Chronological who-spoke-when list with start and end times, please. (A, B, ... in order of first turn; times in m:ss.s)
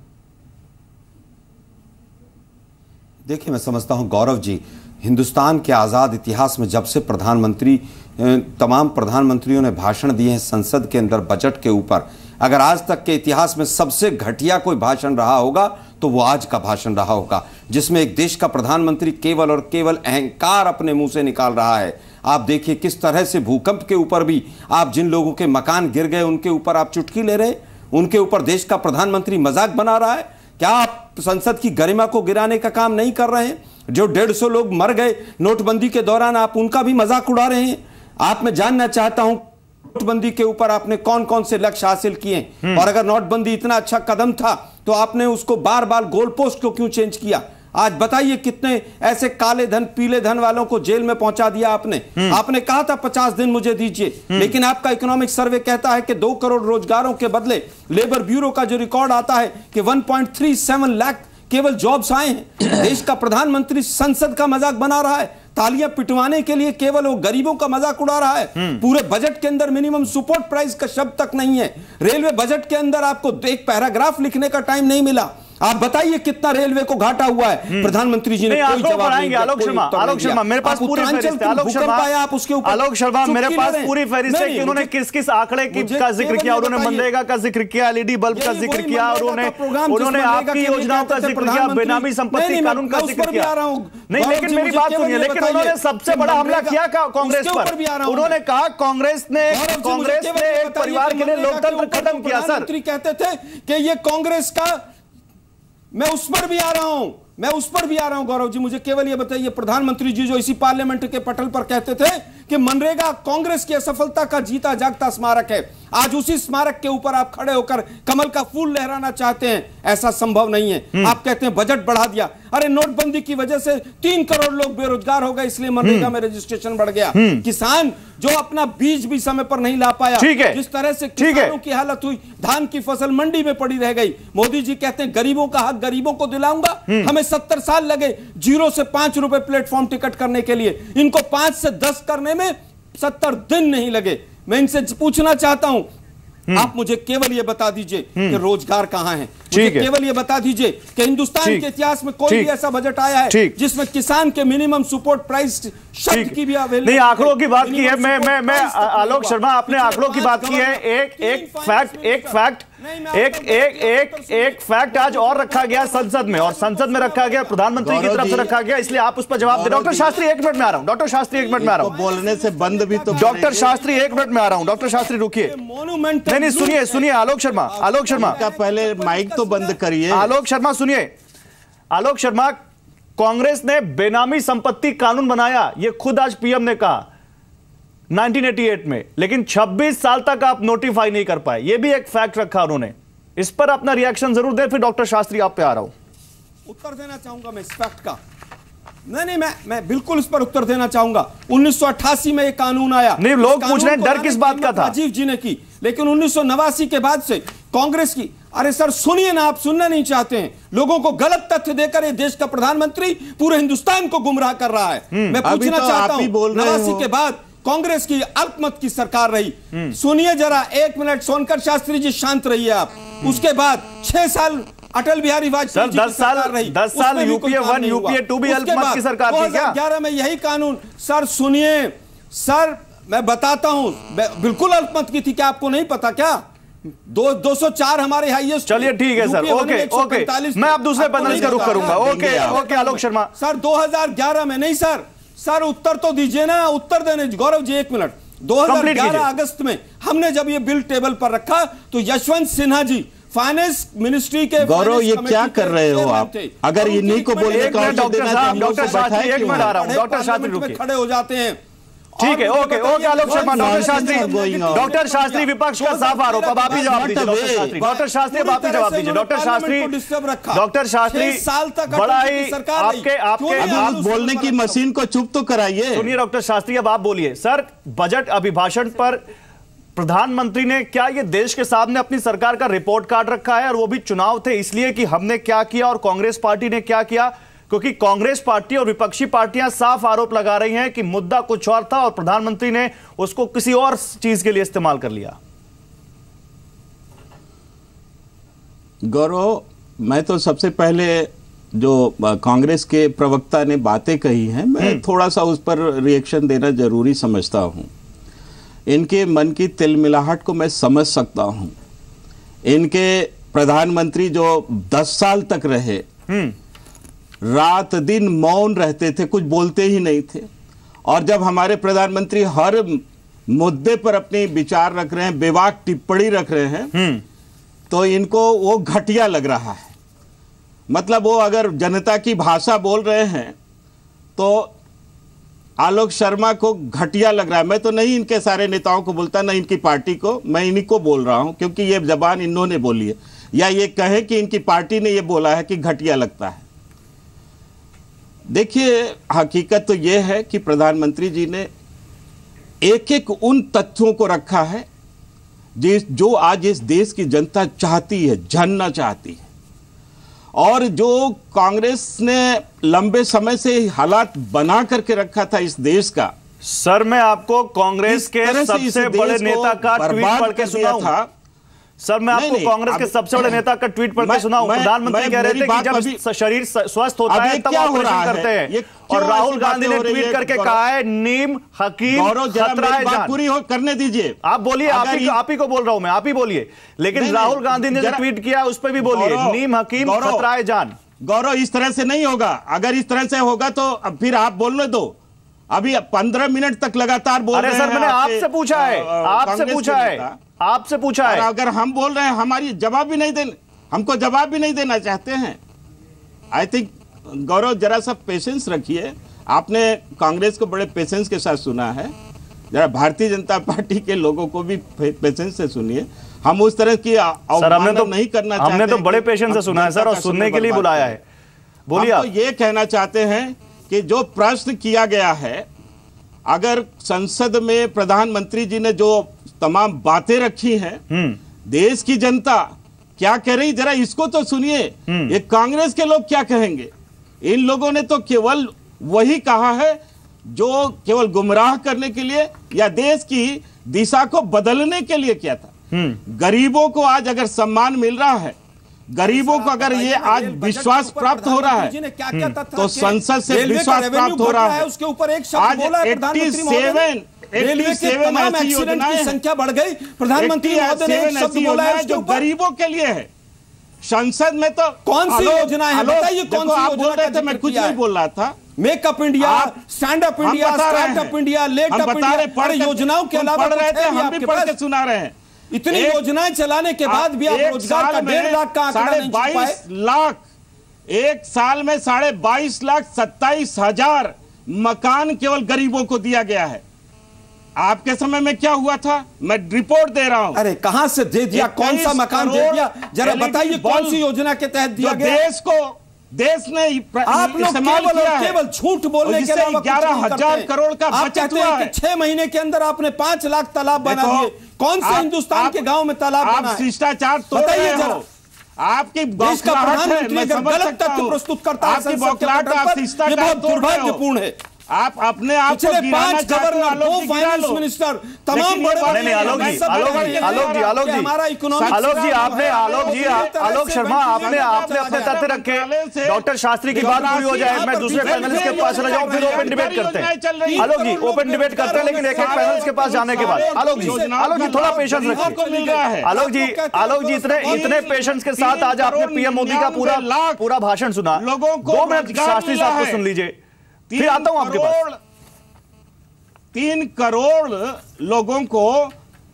0:03.3-1:24.9 A
0:42.6-0:42.9 B
1:18.5-1:22.1 B
1:22.6-1:33.5 B
1:25.7-1:27.1 A
1:28.3-1:38.4 A
1:34.1-1:42.7 B
1:39.5-1:44.8 A
1:45.9-2:25.9 A
2:05.8-2:06.1 B
2:07.1-2:07.4 B
2:10.2-2:10.6 B
2:11.2-2:11.5 B
2:26.5-2:49.0 A
2:29.5-2:29.9 B
2:33.3-2:33.6 B
2:36.1-2:51.9 B
2:47.8-2:48.5 C
2:49.5-2:50.2 C
2:49.5-2:50.6 A
2:51.3-2:59.8 A
2:51.6-2:53.8 C
2:53.1-2:55.5 B
2:56.3-2:58.4 B
2:58.1-3:00.3 C
3:00.1-3:01.1 B
3:01.9-3:02.6 B
3:03.2-3:07.1 B
3:08.1-3:15.9 B
3:16.7-3:18.2 A
3:19.1-3:56.4 A
3:23.2-3:24.9 B
3:35.1-3:35.4 B
3:35.4-3:37.1 C
3:45.7-3:49.8 B
3:57.0-4:21.6 A
3:58.7-4:03.3 B
4:01.0-4:02.6 C
4:08.6-4:09.3 B
4:14.6-4:19.7 C
4:17.5-4:20.8 B
4:22.2-4:34.8 A
4:22.2-4:29.9 B
4:23.2-4:24.9 C
4:26.7-4:27.8 C
4:30.5-4:34.0 B
4:33.6-4:36.1 C
4:36.0-4:39.3 B
4:40.0-4:55.4 B
4:59.0-5:07.9 C
5:08.9-5:11.7 C
5:12.7-5:16.1 C
5:16.3-5:16.6 B
5:17.4-5:20.5 C
5:21.1-5:26.9 C
5:26.9-5:27.2 B
5:27.9-5:29.9 C
5:30.9-5:33.6 C
5:34.4-5:34.7 C
5:35.8-5:46.6 C
5:48.5-5:51.7 C
5:52.8-5:54.9 C
5:55.8-5:59.4 C
6:00.6-6:06.3 C
6:06.6-6:11.1 B
6:08.1-6:11.3 C
6:12.0-6:23.4 B
6:12.3-6:13.6 C
6:14.2-6:16.2 C
6:17.3-6:20.8 C
6:22.1-6:25.4 C
6:24.4-6:31.0 B
6:27.2-6:28.2 C
6:29.0-6:30.4 C
6:31.2-6:35.2 C
6:35.7-6:40.4 C
6:37.5-6:41.5 B
6:41.2-6:45.6 C
6:46.5-6:52.1 C
6:52.7-7:01.2 C
6:57.6-7:01.2 B
7:01.9-7:02.3 B
7:02.0-7:05.7 C
7:06.5-7:11.0 C
7:11.1-7:11.4 B
7:11.7-7:16.9 C
7:15.1-7:15.4 B
7:17.4-7:20.0 C
7:20.5-7:25.7 C
7:25.9-7:26.2 B
7:26.3-7:28.6 C
7:29.1-7:31.9 C
7:29.2-7:42.4 A
7:32.8-7:34.9 C
7:35.6-7:39.4 C
7:40.4-7:43.3 C
7:44.0-7:48.6 C
7:45.1-7:48.0 A
7:48.8-7:54.8 A
7:49.4-7:49.7 C
7:50.4-7:51.4 C
7:51.9-7:55.3 C
7:55.7-7:59.8 A
7:55.9-7:56.2 C
7:57.1-8:00.4 C
8:01.1-8:06.8 C
8:07.8-8:10.6 C
8:10.5-8:15.4 A
8:11.5-8:14.2 C
8:15.0-8:18.6 C
8:17.2-8:26.8 A
8:19.2-8:21.9 C
8:24.0-8:24.5 C
8:25.0-8:25.9 C
8:26.4-8:28.3 C
8:27.5-8:28.2 A
8:28.8-8:34.2 C
8:29.4-8:34.6 A
8:34.9-8:37.8 C
8:35.7-8:45.4 A
8:38.5-8:41.2 C
8:39.1-8:41.3 B
8:41.8-8:43.5 C
8:41.9-8:55.6 B
8:44.3-8:56.3 C
8:46.9-8:50.0 A
8:50.6-8:58.2 A
8:56.2-9:03.6 B
8:57.6-9:00.6 C
9:01.4-9:03.2 C
9:04.1-9:05.2 C
9:04.1-9:05.0 B
9:06.7-9:09.1 C